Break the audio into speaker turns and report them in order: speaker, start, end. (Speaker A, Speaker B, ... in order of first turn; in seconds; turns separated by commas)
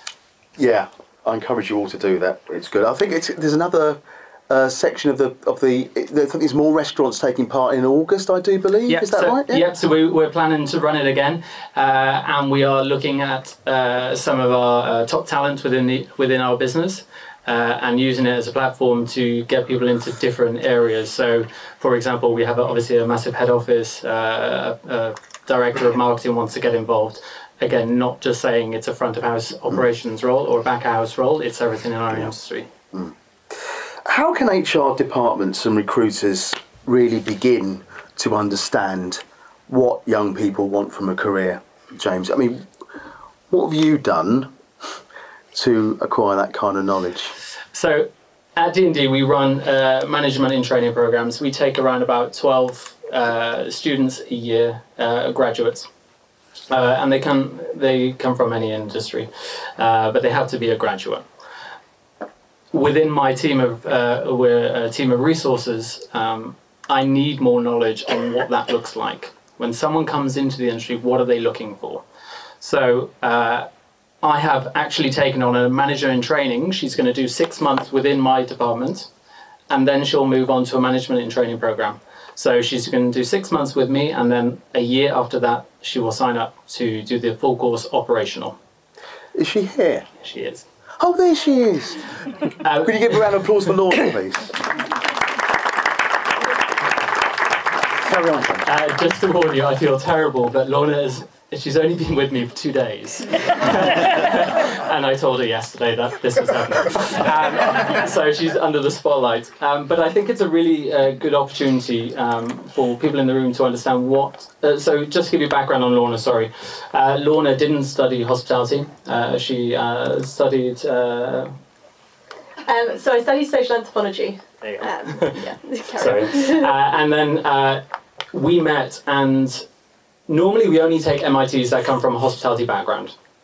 Speaker A: 0.6-9.7, Speaker B: 8.9-32.7, Speaker A: 34.0-42.7, Speaker A: 43.5-44.5, Speaker A: 45.5-47.3, Speaker B: 47.7-55.9, Speaker B: 56.7-61.3, Speaker B: 62.7-72.0, Speaker B: 72.6-73.7, Speaker B: 74.2-79.1, Speaker B: 79.7-88.6, Speaker A: 89.3-90.1, Speaker B: 90.2-90.7, Speaker A: 91.0-92.0, Speaker B: 92.6-93.1, Speaker A: 92.8-94.6, Speaker A: 98.0-98.6, Speaker B: 98.6-121.5, Speaker C: 122.7-126.7, Speaker B: 124.7-129.7, Speaker B: 130.3-133.2